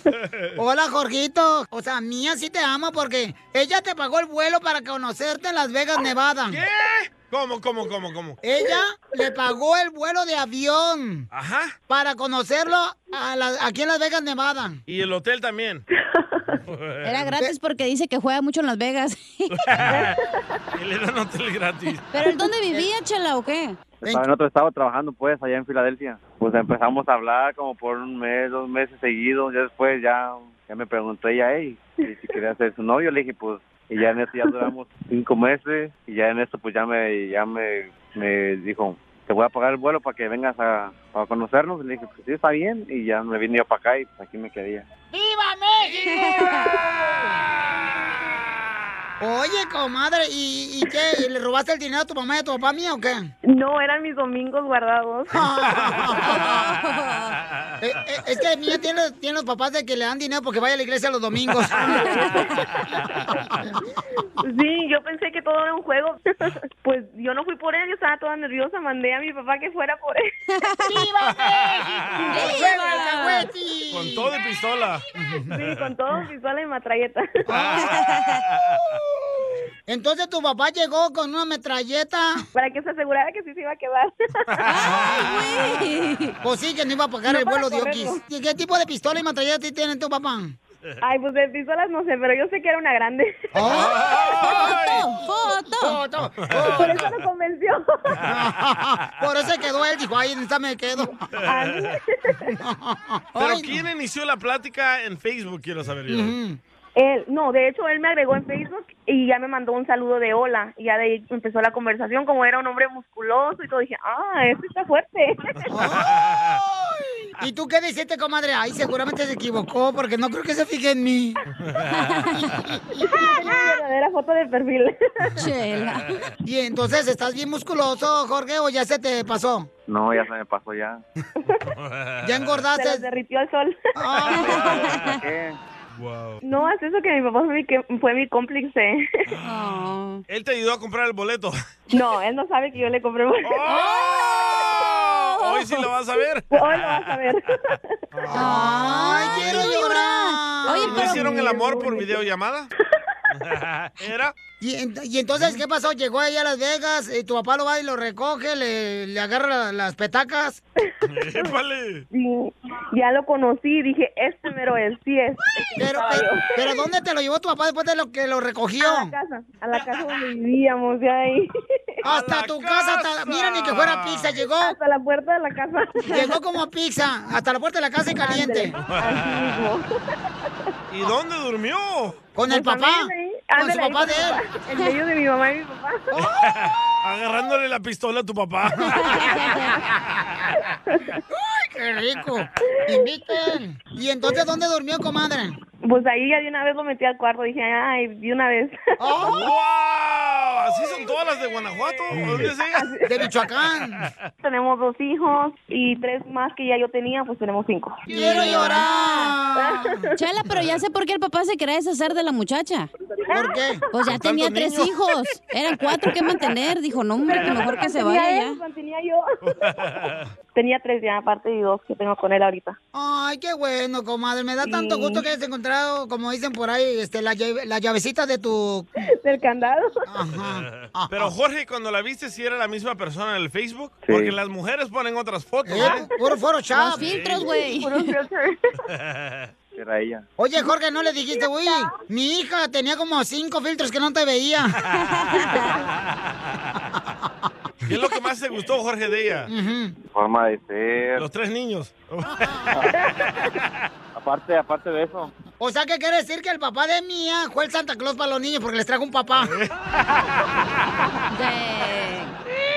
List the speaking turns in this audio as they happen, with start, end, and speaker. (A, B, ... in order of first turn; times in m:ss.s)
0:00.2-0:00.5 A
0:00.6-0:06.6 B
0:06.5-0:08.4 A
0:08.4-0:11.3 B
0:11.3-0:11.7 A
0:11.9-0:14.8 B
0:14.9-0:15.8 A
0:16.2-0:16.6 C
0:16.7-0:17.3 A
0:17.0-0:19.6 D
0:19.5-0:20.2 A
0:19.9-0:20.3 C
0:20.8-0:22.1 A
0:22.1-0:23.8 D
0:24.0-0:44.9 E
0:45.1-0:46.7 B
0:46.3-0:46.6 D
0:49.2-0:53.3 B
0:53.5-0:55.4 C
0:55.3-0:56.6 B
0:56.4-0:57.4 D
0:57.8-1:02.1 B
1:01.8-1:03.0 C
1:04.4-1:10.2 C
1:10.8-1:14.3 B
1:11.4-1:12.4 A
1:12.3-1:13.5 D
1:13.9-1:15.9 A
1:15.2-1:15.5 B
1:15.5-1:17.3 C
1:17.5-1:17.9 B
1:17.5-1:18.8 A
1:19.9-1:22.4 B
1:22.5-1:24.8 C
1:24.6-1:25.7 A
1:24.7-1:26.4 D
1:25.0-1:25.2 B
1:26.4-1:30.6 B
1:27.3-1:28.2 C
1:31.0-1:34.2 C
1:33.6-1:34.0 B
1:33.6-1:35.1 A
1:34.4-1:36.0 D
1:35.8-1:37.0 B
1:36.5-1:37.2 A
1:36.6-1:38.2 C
1:38.2-1:41.2 B
1:41.4-1:42.0 A
1:41.5-1:42.5 C
1:42.5-1:43.8 B
1:43.4-1:46.4 A
1:46.1-1:46.6 B
1:47.0-1:55.5 C
1:55.7-1:56.1 B
1:55.9-1:56.6 A
1:57.4-2:01.4 B
2:01.7-2:02.1 A
2:02.0-2:02.4 D
2:02.6-2:03.3 B
2:03.0-2:05.4 C
2:05.4-2:06.3 D
2:06.4-2:09.7 B
2:09.9-2:11.0 E
2:11.8-2:12.6 A
2:12.2-2:13.1 B
2:12.7-2:13.8 C
2:14.0-2:14.6 B
2:14.4-2:15.0 A
2:14.6-2:15.2 D
2:14.6-2:15.6 E
2:15.9-2:16.4 A
2:16.4-2:19.0 C
2:19.3-2:19.6 A
2:19.4-2:20.2 D
2:20.3-2:21.6 A
2:21.9-2:25.0 C
2:23.4-2:27.3 A
2:26.5-2:27.8 C
2:28.2-2:28.6 A
2:28.3-2:31.3 B
2:28.3-2:31.4 D
2:30.8-2:32.3 C
2:30.8-2:32.7 A
2:33.3-2:34.4 A
2:34.6-2:40.6 B
2:41.1-2:42.0 A
2:42.1-2:46.9 C
2:45.8-2:49.1 B
2:48.8-2:51.5 C
2:49.7-2:50.0 A
2:52.0-2:54.3 A
2:52.0-2:54.8 B
2:54.6-2:56.4 C
2:56.1-2:58.8 B
2:58.2-2:59.8 C
2:58.8-2:59.7 A
3:00.9-3:02.2 A
3:02.4-3:04.4 B
3:02.5-3:06.1 C
3:06.1-3:06.5 B
3:06.2-3:09.2 A
3:09.0-3:09.6 B
3:11.3-3:15.6 B
3:15.8-3:19.4 C
3:19.0-3:19.4 B
3:19.2-3:22.9 A
3:22.2-3:22.5 B
3:22.7-3:23.1 C
3:23.0-3:24.1 B
3:24.4-3:28.9 C
3:28.1-3:30.0 B
3:28.1-3:29.3 D
3:29.6-3:30.2 C
3:30.2-3:32.9 D
3:33.3-3:33.7 C
3:33.3-3:33.8 B
3:33.9-3:38.6 D
3:34.1-3:34.9 A
3:36.2-3:36.5 C
3:37.2-3:39.4 C
3:39.4-3:40.3 A
3:40.6-3:42.8 C
3:42.9-3:48.9 B
3:44.6-3:45.3 C
3:49.2-3:50.0 C
3:50.1-3:51.3 B
3:50.4-3:56.1 A
3:54.0-3:54.4 E
3:55.7-3:57.1 B
3:55.8-3:56.2 C
3:56.7-3:58.1 D
3:57.0-3:57.5 A
3:57.3-3:58.5 C
3:58.9-3:59.5 A
3:59.8-4:00.2 E
4:00.4-4:04.8 B
4:01.3-4:01.9 C
4:05.1-4:05.7 D
4:07.9-4:09.5 A
4:09.5-4:10.0 B
4:10.1-4:11.2 E
4:11.2-4:12.7 A
4:14.2-4:15.3 E
4:15.6-4:19.5 B
4:19.4-4:19.7 A
4:21.3-4:22.4 D